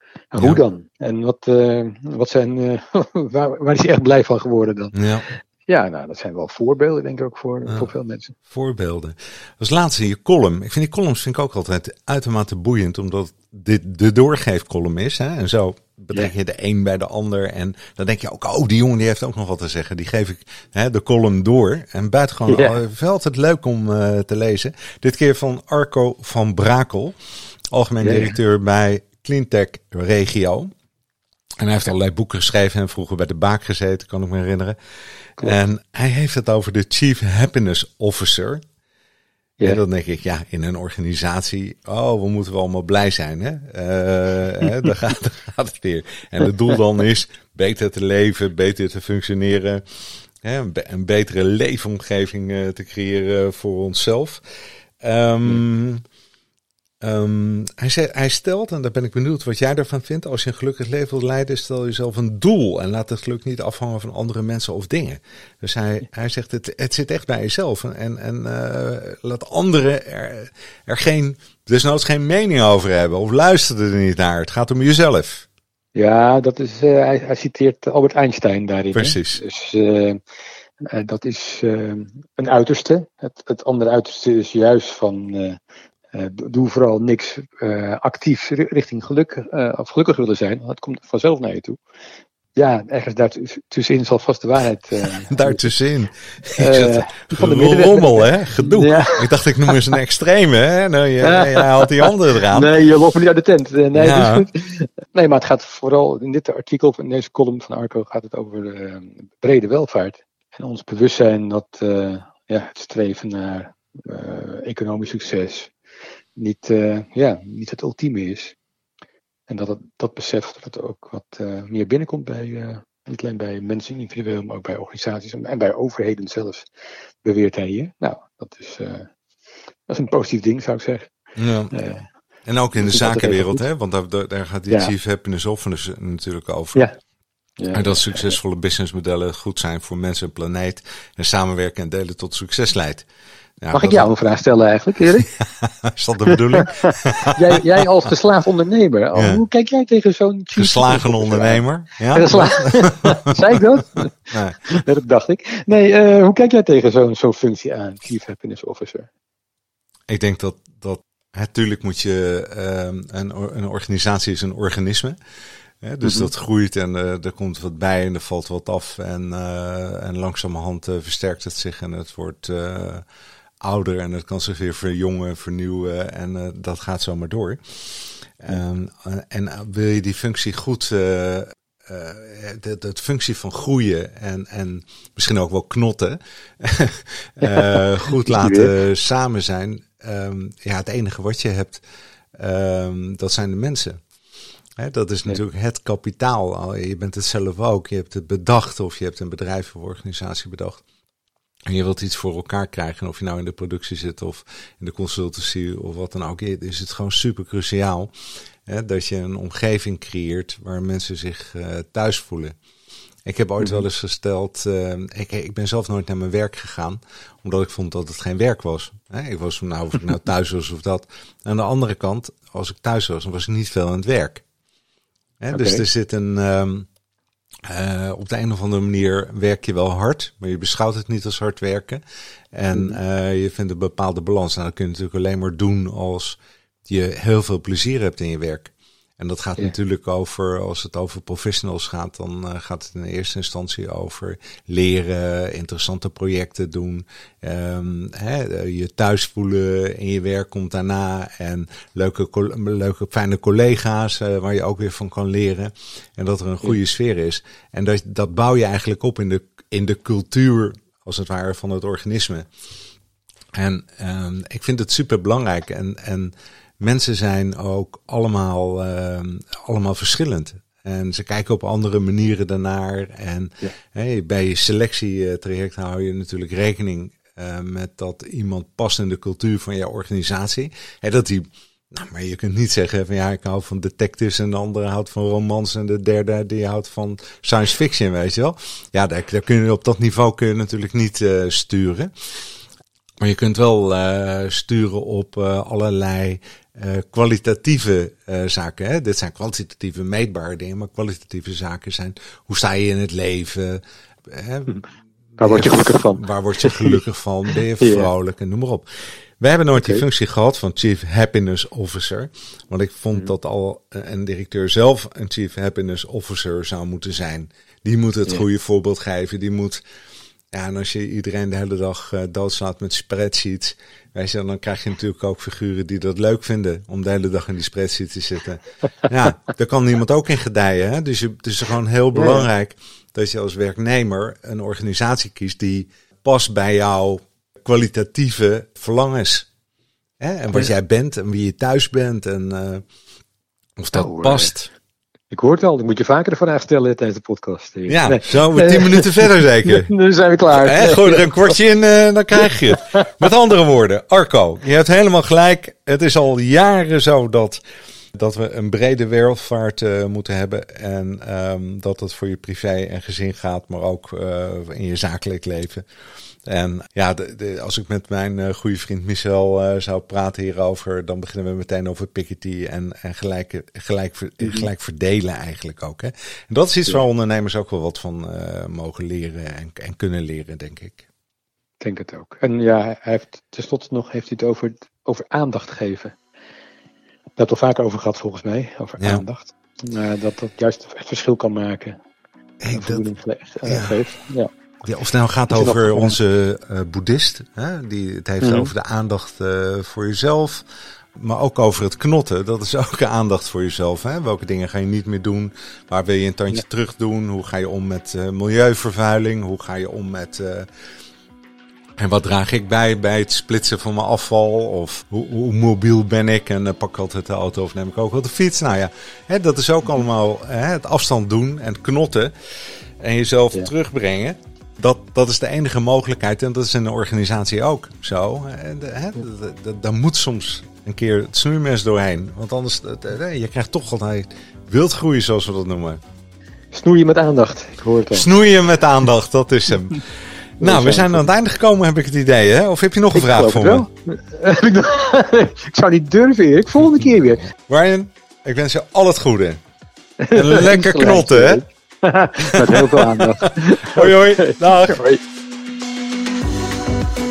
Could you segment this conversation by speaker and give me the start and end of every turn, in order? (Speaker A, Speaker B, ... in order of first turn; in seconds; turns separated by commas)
Speaker A: 0.3-8.3, Speaker B: 4.9-5.3, Speaker B: 8.5-27.1, Speaker A: 22.5-22.8, Speaker B: 27.7-30.7, Speaker A: 28.0-28.3, Speaker B: 31.6-34.8, Speaker B: 35.4-38.6, Speaker B: 39.6-49.8, Speaker B: 50.4-54.4, Speaker B: 55.0-56.0, Speaker B: 57.0-75.5, Speaker A: 75.9-80.2, Speaker B: 78.9-79.4, Speaker A: 80.8-85.6, Speaker A: 86.1-91.8, Speaker A: 92.5-95.7, Speaker B: 95.3-102.7, Speaker A: 96.6-99.8, Speaker A: 101.2-115.7, Speaker B: 103.9-104.5, Speaker A: 116.4-118.5, Speaker A: 119.5-126.7, Speaker A: 127.2-129.1, Speaker A: 129.9-131.1, Speaker B: 131.3-131.7, Speaker A: 131.7-132.1, Speaker B: 132.4-136.8, Speaker A: 132.8-133.6, Speaker A: 137.6-138.2, Speaker B: 137.7-143.1, Speaker B: 143.6-144.1, Speaker A: 143.7-145.3, Speaker B: 145.4-147.8, Speaker A: 146.3-154.1, Speaker B: 149.1-149.4, Speaker B: 150.6-153.1, Speaker B: 154.0-154.6, Speaker A: 154.7-159.1, Speaker B: 160.1-165.2, Speaker B: 165.8-173.0, Speaker A: 166.0-166.3, Speaker B: 173.6-177.6, Speaker B: 178.4-191.8, Speaker A: 187.4-187.7, Speaker A: 188.2-188.7, Speaker B: 192.4-194.0, Speaker B: 194.8-200.8, Speaker B: 201.7-208.1, Speaker B: 208.7-212.6, Speaker B: 213.2-224.4, Speaker B: 225.4-226.9, Speaker A: 225.5-225.8, Speaker B: 227.7-232.0, Speaker B: 232.5-262.5, Speaker A: 232.7-233.0, Speaker B: 263.5-292.1, Speaker B: 293.2-308.8, Speaker A: 305.4-307.0, Speaker A: 307.8-308.1, Speaker B: 309.4-319.8, Speaker A: 309.7-310.0, Speaker B: 320.5-339.5, Speaker A: 332.1-332.5, Speaker B: 340.2-342.8, Speaker B: 343.8-344.7, Speaker A: 343.9-344.5, Speaker A: 345.3-351.5, Speaker B: 347.9-349.9, Speaker B: 350.5-357.6, Speaker A: 352.4-353.0, Speaker B: 358.1-365.8, Speaker B: 366.5-381.1, Speaker A: 374.4-374.7, Speaker A: 381.8-386.1, Speaker A: 387.4-392.0, Speaker B: 392.6-393.1, Speaker A: 392.7-394.5, Speaker B: 393.6-394.0, Speaker B: 394.8-400.6, Speaker A: 395.5-396.1, Speaker A: 398.4-398.7, Speaker B: 401.1-410.7, Speaker B: 412.0-422.3, Speaker B: 423.0-436.0, Speaker A: 436.7-438.3, Speaker B: 438.1-440.0, Speaker B: 440.6-443.9, Speaker A: 440.6-441.3, Speaker A: 443.1-447.5, Speaker B: 447.7-449.6, Speaker A: 450.2-455.2, Speaker B: 450.3-451.6, Speaker B: 452.6-455.0